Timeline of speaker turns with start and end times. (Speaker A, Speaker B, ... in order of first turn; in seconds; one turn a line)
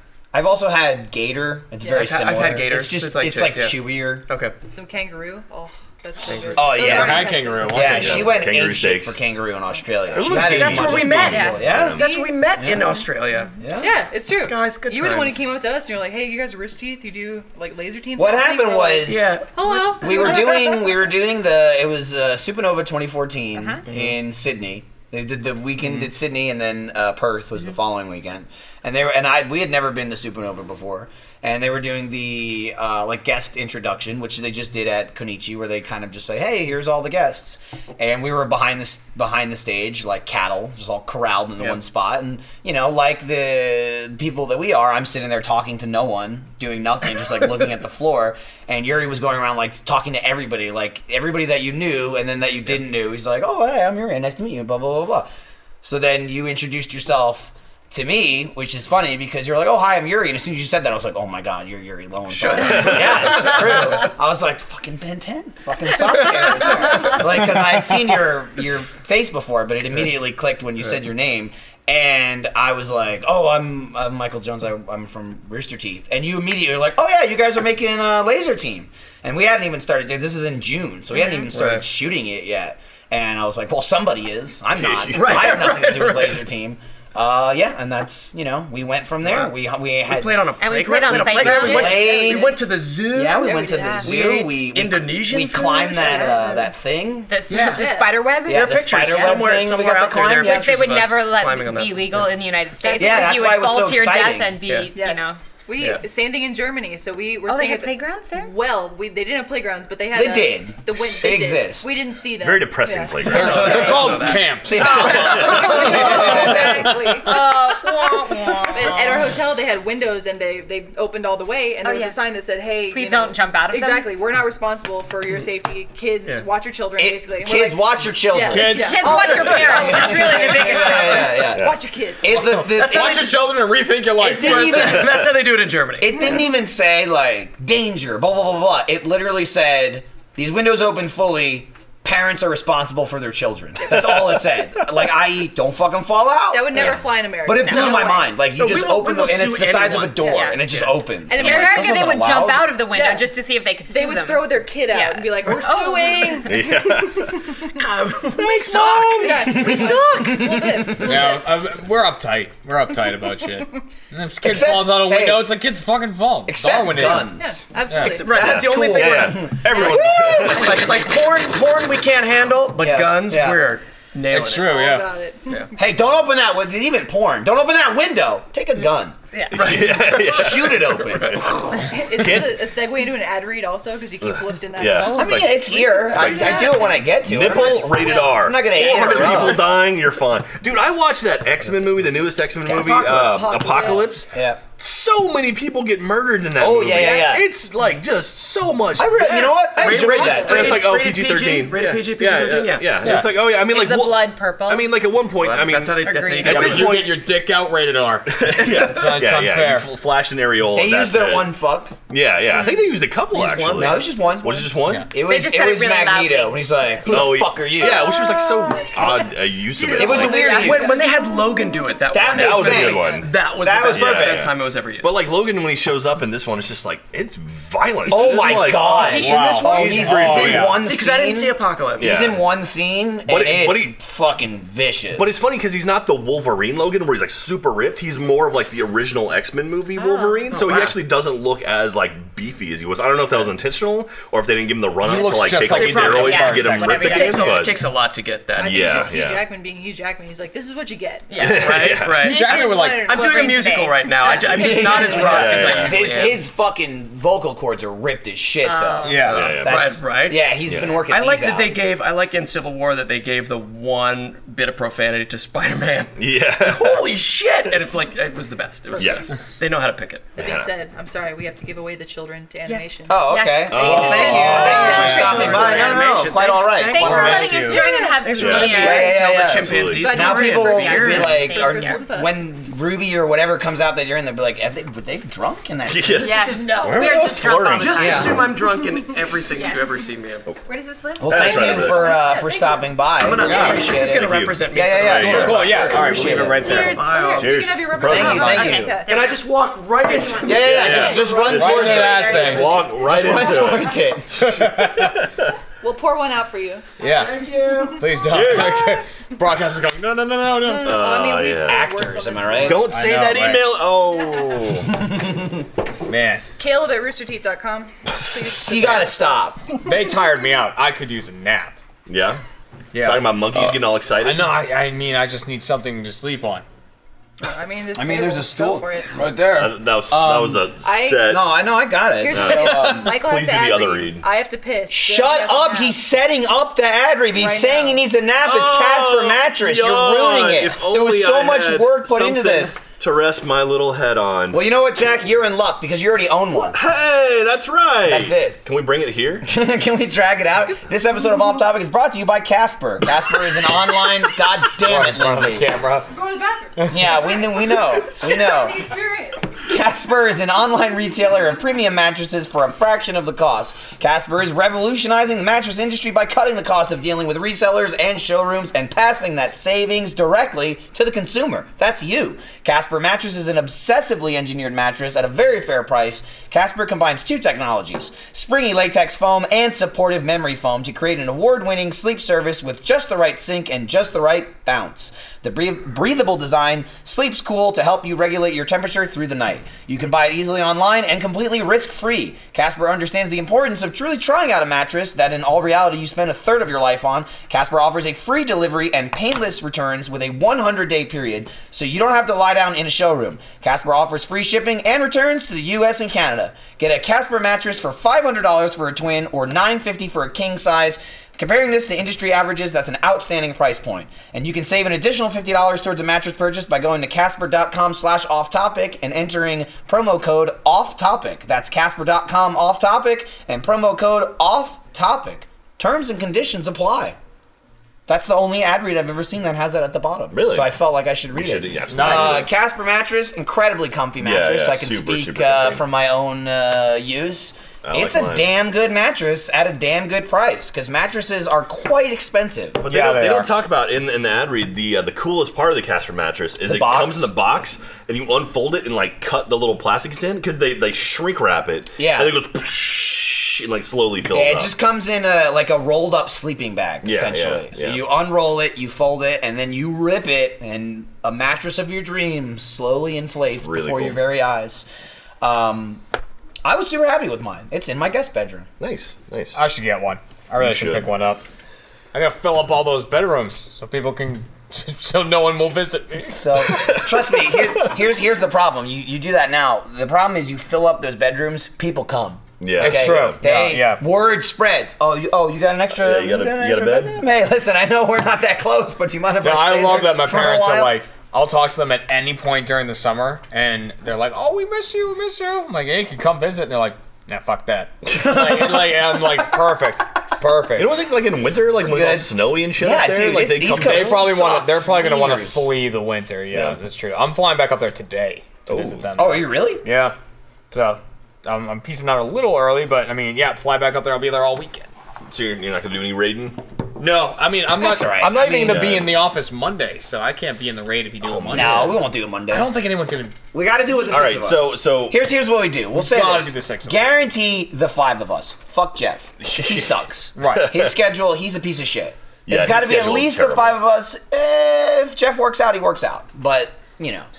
Speaker A: 0.3-4.3
Speaker B: 1.9-4.5
Speaker C: 4.7-8.4
Speaker B: 6.2-7.0
Speaker A: 6.5-12.0
Speaker D: 6.7-8.4
Speaker E: 7.8-9.2
Speaker E: 10.1-12.1
Speaker B: 10.2-13.6
Speaker F: 11.3-11.7
Speaker C: 11.9-12.3
Speaker A: 13.6-14.0
Speaker C: 13.8-20.8
Speaker B: 14.4-15.4
Speaker A: 18.2-55.3
Speaker B: 19.1-20.5
Speaker F: 23.6-23.8
Speaker B: 23.9-24.2
Speaker A: 55.8-92.6
Speaker B: 62.3-64.1
Speaker F: 81.2-81.5
Speaker B: 81.5-81.8
Speaker E: 84.7-85.8
Speaker B: 85.1-86.4
Speaker B: 90.1-96.3
Speaker F: 90.6-92.5
Speaker A: 93.1-97.3
Speaker C: 93.4-94.1
Speaker F: 93.7-94.1
Speaker C: 96.1-96.4
Speaker F: 97.3-99.5
Speaker B: 97.5-97.8
Speaker C: 97.7-98.2
Speaker A: 98.5-101.0
Speaker B: 98.5-102.3
Speaker F: 100.3-105.4
Speaker C: 102.8-103.3
Speaker A: 103.0-104.6
Speaker B: 104.7-104.9
Speaker C: 105.0-113.8
Speaker B: 105.8-106.0
Speaker F: 107.5-108.5
Speaker A: 110.1-111.9
Speaker E: 112.4-114.2
Speaker B: 113.2-115.6
Speaker D: 113.3-117.3
Speaker A: 114.6-116.9
Speaker C: 114.8-132.5
Speaker F: 117.2-119.3
Speaker F: 121.8-122.2
Speaker F: 122.9-124.1
Speaker A: 127.0-129.0
Speaker D: 128.4-130.2
Speaker F: 128.7-131.4
Speaker B: 129.3-131.0
Speaker A: 130.5-133.4
Speaker D: 132.3-135.1
Speaker B: 132.6-133.6
Speaker A: 134.2-135.3
Speaker B: 134.2-136.4
Speaker A: 136.0-152.7
Speaker C: 143.8-144.2
Speaker C: 146.5-148.3
Speaker F: 147.7-148.1
Speaker B: 148.5-151.0
Speaker F: 150.2-150.6
Speaker C: 151.3-152.1
Speaker F: 151.3-156.5
Speaker C: 152.8-153.3
Speaker C: 153.9-157.8
Speaker E: 156.5-157.5
Speaker B: 157.8-159.9
Speaker C: 158.4-161.4
Speaker A: 159.3-161.3
Speaker D: 161.0-168.2
Speaker A: 164.4-165.6
Speaker A: 166.5-167.7
Speaker C: 167.4-168.3
Speaker B: 167.9-174.8
Speaker A: 168.3-170.1
Speaker E: 168.3-170.8
Speaker A: 172.8-173.7
Speaker D: 174.3-175.1
Speaker C: 174.6-175.9
Speaker A: 175.8-179.2
Speaker F: 179.3-179.7
Speaker E: 179.5-182.7
Speaker B: 179.5-181.5
Speaker A: 179.7-181.9
Speaker C: 181.7-189.5
Speaker E: 184.3-207.3
Speaker F: 185.0-185.3
Speaker A: 185.1-189.8
Speaker B: 192.6-194.3
Speaker C: 193.5-194.2
Speaker A: 194.3-194.6
Speaker A: 196.6-197.5
Speaker C: 196.9-197.4
Speaker A: 199.0-200.8
Speaker C: 199.7-200.9
Speaker B: 199.8-203.2
Speaker D: 203.0-203.3
Speaker F: 203.6-205.0
Speaker B: 205.3-207.2
Speaker F: 206.0-206.8
Speaker D: 206.4-209.9
Speaker E: 208.3-211.5
Speaker A: 210.7-211.9
Speaker E: 212.1-215.1
Speaker F: 212.5-212.9
Speaker A: 213.5-218.2
Speaker F: 215.2-217.3
Speaker E: 217.1-220.5
Speaker F: 218.1-218.4
Speaker F: 219.8-221.0
Speaker A: 219.9-221.0
Speaker B: 220.1-225.2
Speaker A: 222.1-224.5
Speaker E: 222.3-223.4
Speaker E: 223.9-230.9
Speaker A: 228.1-235.4
Speaker B: 229.0-232.2
Speaker D: 229.0-230.8
Speaker E: 232.0-232.4
Speaker E: 233.3-233.9
Speaker E: 235.1-247.9
Speaker F: 240.0-240.6
Speaker B: 240.5-241.0
Speaker D: 245.0-247.4
Speaker B: 245.6-249.1
Speaker F: 246.1-247.7
Speaker E: 248.6-249.5
Speaker C: 248.6-251.6
Speaker F: 251.3-255.6
Speaker E: 251.4-252.3
Speaker B: 251.4-256.4
Speaker D: 252.2-253.1
Speaker C: 252.2-255.9
Speaker E: 254.6-256.1
Speaker A: 254.6-261.8
Speaker F: 258.6-259.2
Speaker D: 259.1-259.4
Speaker B: 259.1-270.4
Speaker E: 259.3-260.0
Speaker E: 260.7-261.0
Speaker E: 266.2-267.1
Speaker E: 269.0-269.3
Speaker E: 270.4-270.7
Speaker C: 270.4-276.2
Speaker F: 272.7-276.3
Speaker A: 273.1-277.5
Speaker E: 273.7-274.7
Speaker D: 274.6-275.2
Speaker B: 274.6-281.4
Speaker F: 276.9-279.2
Speaker C: 277.0-279.1
Speaker D: 277.1-277.8
Speaker E: 278.4-278.9
Speaker A: 278.6-286.5
Speaker E: 279.4-280.2
Speaker C: 280.0-282.5
Speaker F: 280.5-282.0
Speaker E: 285.9-288.5
Speaker C: 286.2-288.9
Speaker F: 286.2-288.5
Speaker B: 287.7-290.5
Speaker A: 288.0-288.3
Speaker F: 289.5-289.9
Speaker F: 290.6-292.8
Speaker A: 291.2-296.8
Speaker E: 291.2-292.2
Speaker C: 291.7-292.8
Speaker B: 293.2-297.6
Speaker E: 293.4-296.0
Speaker F: 293.5-293.8
Speaker D: 295.2-297.2
Speaker F: 296.6-299.4
Speaker C: 297.1-299.4
Speaker E: 297.4-298.7
Speaker A: 298.0-299.0
Speaker D: 298.2-298.5
Speaker B: 299.1-301.9
Speaker F: 300.0-303.8
Speaker A: 300.4-304.3
Speaker E: 300.5-305.5
Speaker D: 300.8-302.8
Speaker D: 304.4-305.2
Speaker C: 305.8-306.9
Speaker D: 307.0-311.0
Speaker B: 307.1-308.2
Speaker C: 307.5-307.9
Speaker E: 308.2-309.0
Speaker C: 310.6-312.9
Speaker E: 310.7-311.8
Speaker A: 311.6-312.9
Speaker E: 312.5-314.9
Speaker D: 312.8-313.8
Speaker D: 316.1-316.4
Speaker C: 316.6-319.5
Speaker A: 318.5-319.6
Speaker D: 319.9-321.7
Speaker E: 322.1-322.4
Speaker E: 322.9-324.6
Speaker D: 322.9-323.7
Speaker D: 324.2-326.6
Speaker C: 327.4-329.2
Speaker A: 327.9-330.7
Speaker E: 329.4-331.5
Speaker C: 330.8-331.4
Speaker A: 331.3-333.2
Speaker C: 332.1-336.0
Speaker E: 332.3-334.3
Speaker A: 334.9-342.8
Speaker C: 337.3-338.0
Speaker E: 338.4-344.6
Speaker A: 344.5-346.8
Speaker E: 346.7-349.5
Speaker A: 348.1-348.6
Speaker A: 349.4-355.7
Speaker D: 354.7-356.1
Speaker C: 356.1-359.6
Speaker D: 356.8-357.1
Speaker A: 356.9-358.9
Speaker A: 359.7-427.2
Speaker A: 428.1-442.8
Speaker E: 430.3-430.7
Speaker E: 431.3-432.5
Speaker D: 431.9-432.5
Speaker E: 434.2-435.8
Speaker E: 437.8-438.5
Speaker E: 442.8-454.7
Speaker D: 442.9-443.5
Speaker A: 446.6-447.3
Speaker A: 452.0-452.4
Speaker A: 454.3-464.9
Speaker E: 457.0-458.0
Speaker E: 463.6-464.2
Speaker A: 465.4-466.0
Speaker A: 466.6-468.7
Speaker E: 468.8-469.6
Speaker D: 469.6-471.4
Speaker E: 470.6-471.1
Speaker D: 472.1-476.9
Speaker A: 476.3-491.0
Speaker E: 476.7-477.9
Speaker E: 482.6-483.4
Speaker D: 482.8-484.0
Speaker E: 485.9-487.2
Speaker D: 489.4-501.0
Speaker E: 498.1-498.8
Speaker A: 498.1-499.1
Speaker E: 500.7-504.4
Speaker A: 501.8-505.7
Speaker D: 503.6-510.2
Speaker E: 506.5-506.8
Speaker E: 508.7-509.2
Speaker A: 509.1-509.9
Speaker D: 510.7-514.9
Speaker E: 515.3-516.6
Speaker D: 517.0-523.4
Speaker A: 517.7-519.0
Speaker E: 518.4-519.3
Speaker E: 521.2-522.0
Speaker A: 521.5-522.8
Speaker A: 523.5-537.3
Speaker E: 524.1-525.2
Speaker D: 525.9-527.1
Speaker E: 529.4-529.9
Speaker D: 530.4-530.8
Speaker E: 530.4-530.8
Speaker E: 532.5-533.8